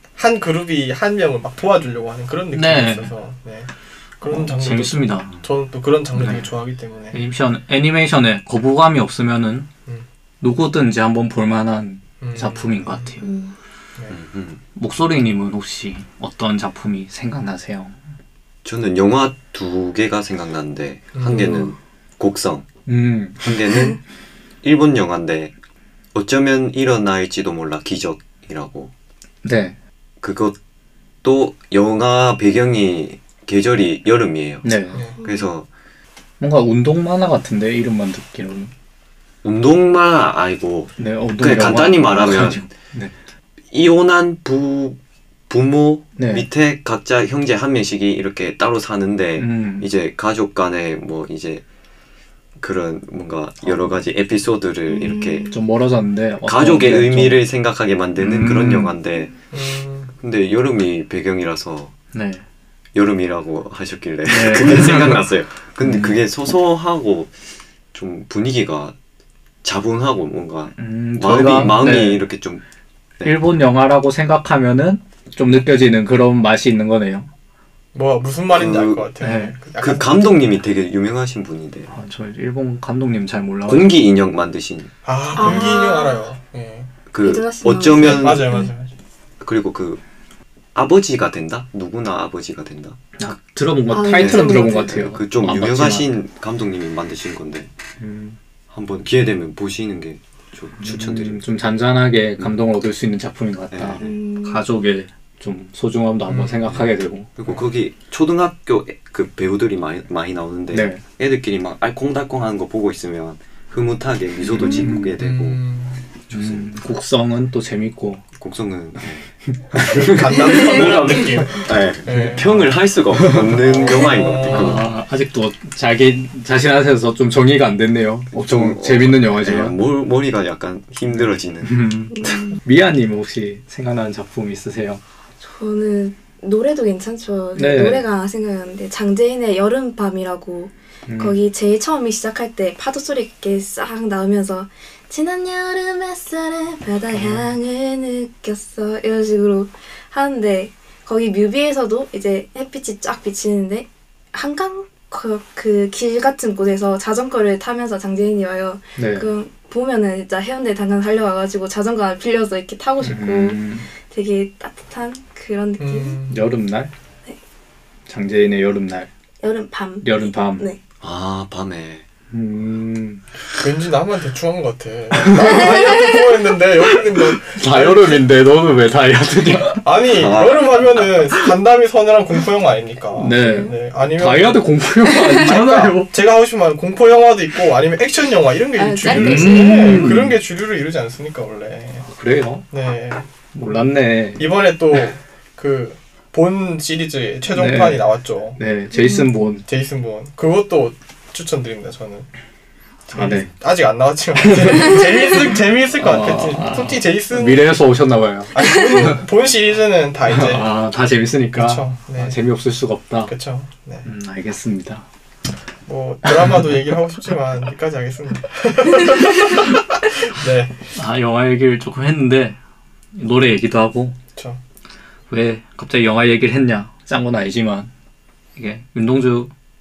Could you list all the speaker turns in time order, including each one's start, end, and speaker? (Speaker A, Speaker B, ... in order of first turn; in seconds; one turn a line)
Speaker A: 0.1-3.7
Speaker B: 2.5-3.1
Speaker A: 4.2-7.2
Speaker B: 4.3-5.3
Speaker B: 6.1-6.5
Speaker B: 7.1-9.7
Speaker B: 10.4-13.2
Speaker A: 12.2-13.1
Speaker C: 13.2-13.5
Speaker D: 14.1-14.6
Speaker B: 14.8-17.9
Speaker D: 18.6-22.7
Speaker A: 21.1-21.7
Speaker B: 22.9-23.6
Speaker D: 23.4-24.0
Speaker D: 24.6-25.5
Speaker D: 26.1-28.9
Speaker B: 29.4-29.8
Speaker D: 30.2-30.6
Speaker D: 31.2-35.7
Speaker B: 34.6-35.0
Speaker C: 35.2-35.5
Speaker B: 36.4-38.7
Speaker D: 39.4-42.6
Speaker B: 41.0-43.1
Speaker D: 43.7-45.0
Speaker D: 45.5-51.6
Speaker B: 46.2-46.5
Speaker B: 49.4-49.9
Speaker D: 52.6-55.5
Speaker C: 54.9-55.6
Speaker B: 55.5-57.4
Speaker D: 56.4-59.3
Speaker B: 58.2-58.9
Speaker A: 59.5-60.1
Speaker D: 60.2-61.9
Speaker B: 62.1-62.4
Speaker D: 62.9-67.3
Speaker B: 64.3-65.2
Speaker B: 65.8-66.2
Speaker D: 67.9-68.9
Speaker D: 69.6-72.6
Speaker B: 70.8-72.2
Speaker B: 73.2-77.3
Speaker A: 77.9-80.3
Speaker D: 78.5-79.1
Speaker B: 79.2-79.5
Speaker D: 79.8-81.9
Speaker B: 81.9-83.9
Speaker D: 83.7-85.7
Speaker A: 85.0-86.9
Speaker C: 85.3-86.3
Speaker D: 87.1-88.6
Speaker C: 87.2-88.7
Speaker A: 88.0-88.9
Speaker D: 89.4-90.0
Speaker D: 90.7-93.0
Speaker B: 93.2-96.1
Speaker C: 93.9-95.0
Speaker D: 94.1-97.7
Speaker B: 98.0-98.4
Speaker D: 98.7-101.4
Speaker B: 100.8-107.3
Speaker D: 103.7-104.1
Speaker C: 104.0-104.6
Speaker A: 106.3-106.7
Speaker D: 107.4-115.6
Speaker B: 110.7-111.0
Speaker B: 114.6-115.1
Speaker A: 115.2-116.0
Speaker D: 116.3-116.7
Speaker B: 116.3-118.2
Speaker D: 118.4-124.9
Speaker B: 119.7-120.3
Speaker A: 119.9-122.8
Speaker C: 120.5-120.8
Speaker B: 122.1-122.4
Speaker B: 123.1-123.5
Speaker A: 123.5-124.8
Speaker B: 124.5-129.7
Speaker D: 128.3-131.8
Speaker B: 131.6-135.0
Speaker C: 132.1-132.6
Speaker C: 135.4-166.2
Speaker B: 137.6-138.0
Speaker B: 141.1-141.4
Speaker B: 147.1-147.5
Speaker B: 159.0-159.3
Speaker B: 163.0-163.9
Speaker A: 165.8-166.5
Speaker B: 166.3-166.9
Speaker B: 168.1-169.1
Speaker C: 169.4-170.8
Speaker B: 170.0-170.6
Speaker D: 171.0-172.0
Speaker B: 172.3-173.2
Speaker A: 173.6-178.2
Speaker B: 175.1-175.9
Speaker B: 177.4-179.8
Speaker A: 179.8-192.1
Speaker D: 180.1-181.2
Speaker B: 183.1-186.1
Speaker C: 183.4-183.7
Speaker C: 185.0-185.4
Speaker C: 188.8-190.1
Speaker B: 189.1-190.4
Speaker B: 192.1-192.7
Speaker A: 192.7-193.3
Speaker B: 193.5-194.5
Speaker A: 194.4-198.6
Speaker B: 197.5-199.6
Speaker C: 198.9-199.3
Speaker A: 199.7-202.3
Speaker A: 203.1-207.7
Speaker B: 203.1-203.5
Speaker B: 204.4-205.4
Speaker B: 206.0-209.2
Speaker A: 208.5-210.7
Speaker B: 210.2-213.3
Speaker A: 211.5-212.4
Speaker A: 213.3-214.1
Speaker B: 214.0-215.0
Speaker A: 215.8-220.9
Speaker B: 216.2-216.8
Speaker B: 220.9-222.6
Speaker B: 223.1-224.2
Speaker B: 225.3-227.9
Speaker B: 228.6-229.5